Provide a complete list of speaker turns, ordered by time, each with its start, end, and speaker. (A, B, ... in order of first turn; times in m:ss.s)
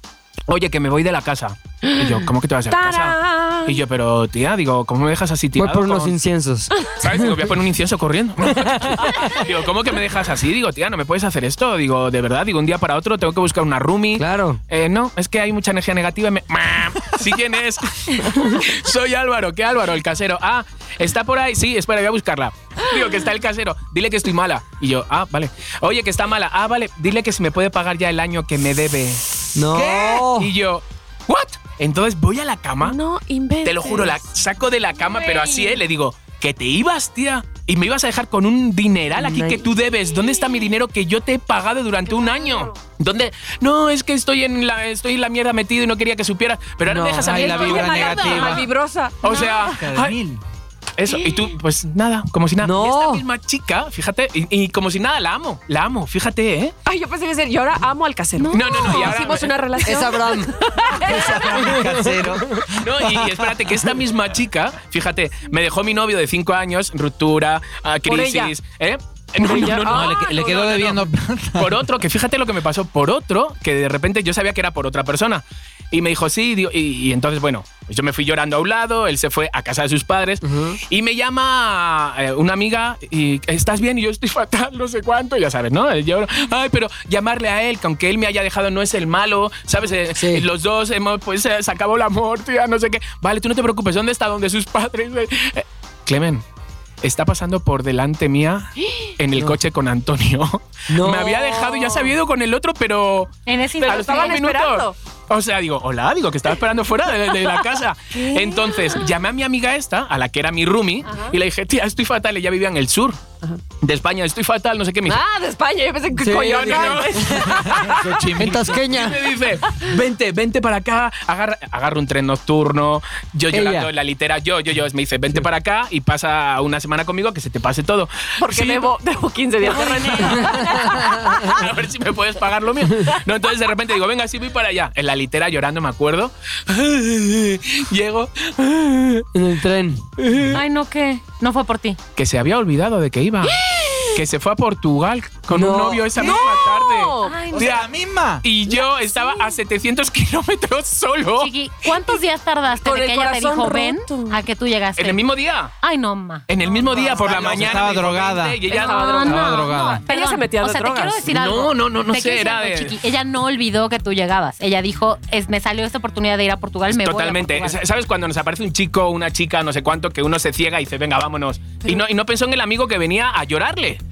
0:00.5-0:06.1 A
0:02.7-0:03.8 B
0:05.6-0:07.4 C
0:07.0-0:29.2 A
0:08.5-0:09.2 C
0:14.2-0:14.6 C
0:29.5-0:30.5 C
0:29.7-0:30.2 D
0:30.2-0:33.0 A
0:32.8-0:34.2 B
0:33.6-0:48.6 A
0:35.2-0:35.7 B
0:39.1-0:39.6 C
0:42.1-0:42.7 B
0:46.8-0:47.4 C
0:47.2-0:48.7 D
0:47.2-0:49.7 B
0:49.2-0:50.2 A
0:49.3-0:49.5 E
0:49.6-0:50.4 D
0:51.0-0:56.7 A
0:51.1-0:51.4 B
0:52.6-0:53.2 C
0:56.8-1:01.9 B
0:58.4-0:59.2 E
0:58.5-0:59.5 A
0:59.8-1:00.5 C
1:00.9-1:03.5 D
1:01.5-1:02.6 C
1:02.8-1:36.4 A
1:08.0-1:08.5 B
1:09.4-1:10.7 B
1:09.8-1:11.8 D
1:20.4-1:20.8 C
1:30.1-1:30.5 C
1:37.0-1:53.2 A
1:40.9-1:41.4 C
1:41.2-1:42.1 B
1:43.4-1:44.4 E
1:43.8-1:44.9 B
1:48.1-1:49.1 B
1:51.1-1:51.3 B
1:53.8-1:55.2 A
1:55.0-1:58.3 B
1:56.1-1:57.6 C
1:56.4-1:57.7 A
1:57.6-1:58.8 D
1:58.4-1:59.3 C
1:58.4-2:08.9 A
2:03.5-2:03.9 C
2:08.4-2:11.7 B
2:09.7-2:10.4 A
2:10.4-2:11.4 C
2:11.0-2:19.2 A
2:19.3-2:20.6 C
2:20.5-2:22.0 E
2:22.2-2:27.9 A
2:23.4-2:24.2 B
2:25.5-2:26.2 C
2:26.2-2:27.6 B
2:27.2-2:27.7 E
2:27.5-2:28.4 D
2:28.4-2:31.5 A
2:28.7-2:29.5 B
2:31.4-2:35.2 E
2:32.8-2:34.4 B
2:35.0-2:35.7 A
2:35.8-2:36.4 E
2:36.5-2:39.3 A
2:36.6-2:38.0 B
2:37.2-2:38.6 D
2:38.7-2:41.3 B
2:38.7-2:47.8 E
2:39.2-2:40.0 D
2:41.3-2:43.0 A
2:46.9-2:54.0 A